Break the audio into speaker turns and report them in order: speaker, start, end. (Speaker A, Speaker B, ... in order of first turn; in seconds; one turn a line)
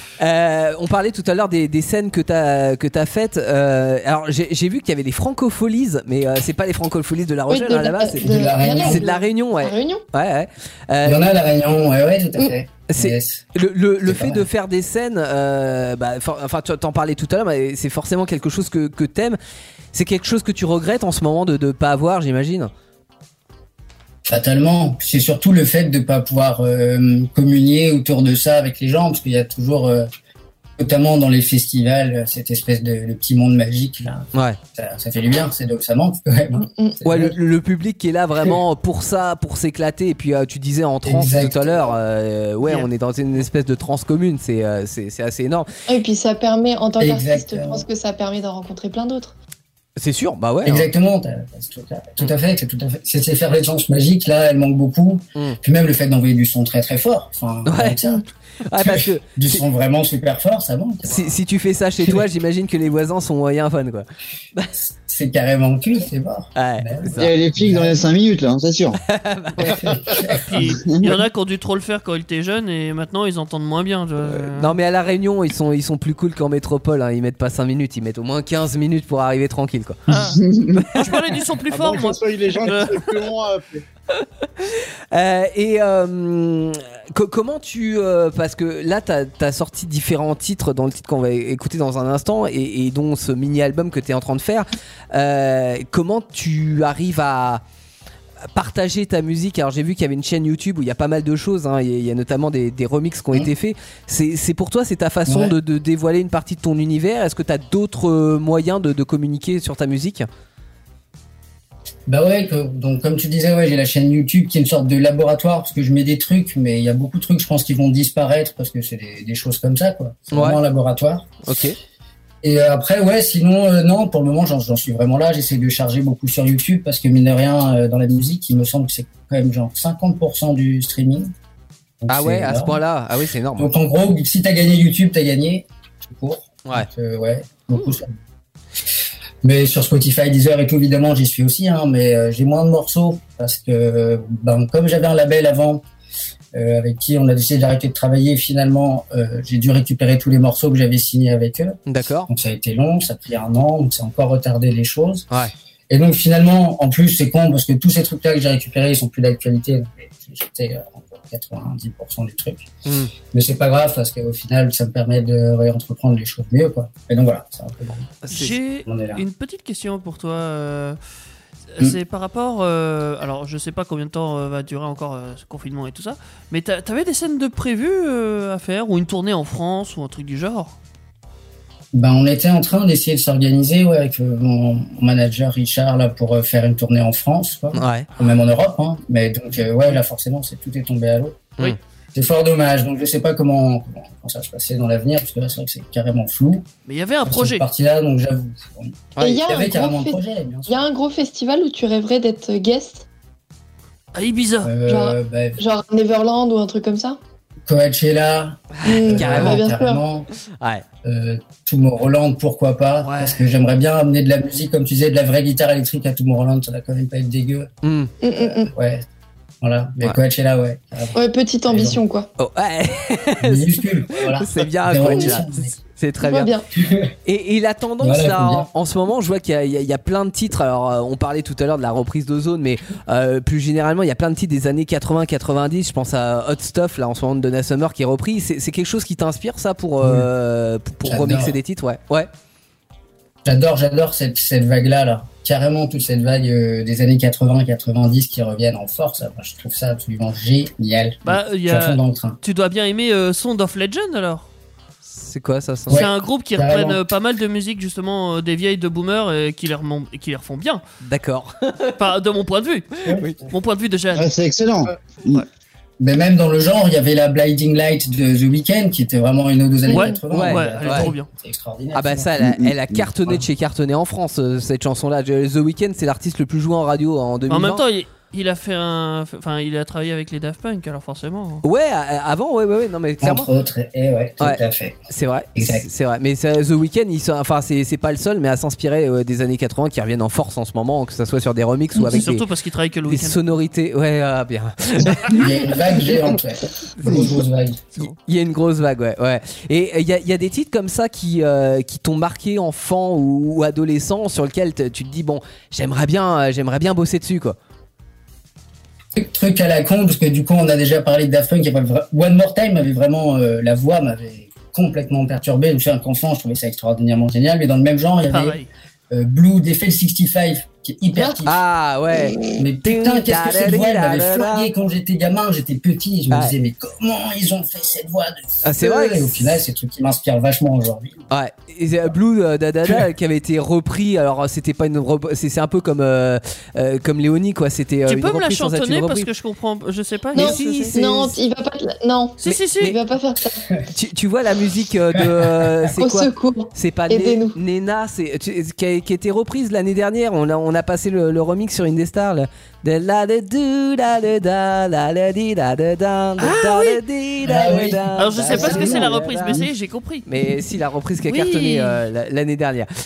Speaker A: 0.2-11.2
Speaker B: 7.5-10.0
Speaker C: 8.2-9.0
Speaker C: 11.0-13.5
Speaker A: 12.9-19.4
Speaker C: 14.0-14.4
Speaker A: 19.9-22.7
Speaker C: 24.2-30.1
Speaker C: 30.8-37.4
Speaker B: 36.6-37.0
Speaker A: 37.0-45.7
Speaker C: 41.0-42.0
Speaker D: 42.6-42.9
Speaker B: 45.9-49.3
Speaker C: 47.0-47.9
Speaker A: 50.0-50.9
Speaker C: 50.6-61.3
Speaker A: 57.7-58.0
Speaker A: 58.6-59.6
Speaker A: 61.0-64.7
Speaker C: 65.0-68.0
Speaker A: 66.5-67.3
Speaker E: 67.2-69.0
Speaker A: 69.1-70.2
Speaker C: 69.6-70.7
Speaker D: 70.5-74.8
Speaker E: 70.8-71.1
Speaker A: 74.2-80.0
Speaker D: 80.1-80.4
Speaker E: 80.1-80.9
Speaker A: 80.8-81.2
Speaker D: 80.9-83.2
Speaker F: 81.7-83.8
Speaker A: 84.1-97.6
Speaker A: 98.5-110.3
Speaker C: 105.2-105.5
Speaker C: 112.1-121.3
Speaker A: 120.3-120.6
Speaker A: 121.4-121.8
Speaker C: 122.4-131.3
Speaker C: 132.0-132.8
Speaker A: 132.1-133.7
Speaker C: 133.6-138.2
Speaker C: 139.4-145.8
Speaker C: 146.5-155.3
Speaker A: 151.9-152.3
Speaker C: 155.9-162.7
Speaker A: 162.8-163.1
Speaker C: 163.3-168.3
Speaker A: 168.2-168.6
Speaker D: 168.3-171.0
Speaker C: 168.8-169.2
Speaker D: 171.8-180.8
Speaker C: 181.9-196.7
Speaker A: 187.7-188.1
Speaker D: 196.8-197.6
Speaker C: 197.2-200.8
Speaker A: 199.2-199.4
Speaker B: 199.2-203.1
Speaker D: 204.1-204.7
Speaker C: 204.6-205.6
Speaker B: 204.8-207.2
Speaker C: 207.7-210.3
Speaker A: 208.8-209.6
Speaker B: 208.8-210.0
Speaker C: 211.0-217.7
Speaker D: 213.0-213.4
Speaker A: 217.8-218.1
Speaker B: 218.2-218.7
Speaker C: 218.6-219.0
Speaker C: 219.6-222.0
Speaker B: 221.1-222.3
Speaker A: 222.4-226.5
Speaker C: 223.4-225.7
Speaker B: 226.2-226.7
Speaker C: 226.7-227.1
Speaker A: 227.2-242.3
Speaker C: 228.0-228.7
Speaker C: 240.0-240.3
Speaker C: 241.0-241.6
Speaker C: 243.4-252.4
Speaker D: 251.2-254.5
Speaker A: 255.1-256.1
Speaker C: 255.9-257.0
Speaker D: 255.9-260.8
Speaker A: 261.0-262.0
Speaker D: 262.0-262.9
Speaker C: 263.0-263.4
Speaker A: 263.1-263.4
Speaker D: 263.5-264.3
Speaker E: 264.1-265.4
Speaker C: 266.0-272.3
Speaker B: 269.9-270.1
Speaker D: 269.9-271.3
Speaker A: 270.3-271.1
Speaker A: 271.9-277.8
Speaker E: 272.4-273.1
Speaker D: 277.5-281.6
Speaker A: 281.6-283.5
Speaker C: 283.2-285.0
Speaker A: 284.4-292.4
Speaker C: 285.6-285.9
Speaker D: 292.0-293.4
Speaker A: 293.1-295.9
Speaker C: 295.3-297.8
Speaker A: 297.0-297.3
Speaker A: 298.0-307.6
Speaker C: 309.1-318.6
Speaker D: 318.3-318.7
Speaker C: 319.1-321.6
Speaker A: 321.4-324.7
Speaker B: 322.3-322.6
Speaker C: 322.5-331.2
Speaker A: 328.6-329.6
Speaker A: 331.3-339.3
Speaker D: 338.1-340.9
Speaker B: 340.3-343.7
Speaker A: 340.4-341.3
Speaker D: 342.4-342.9
Speaker A: 342.4-342.9
Speaker A: 343.9-359.6
Speaker C: 345.2-345.9
Speaker B: 346.0-347.6
Speaker D: 356.4-357.0
Speaker C: 357.4-359.6
Speaker D: 358.2-360.2
Speaker A: 360.2-362.9
Speaker D: 361.3-362.0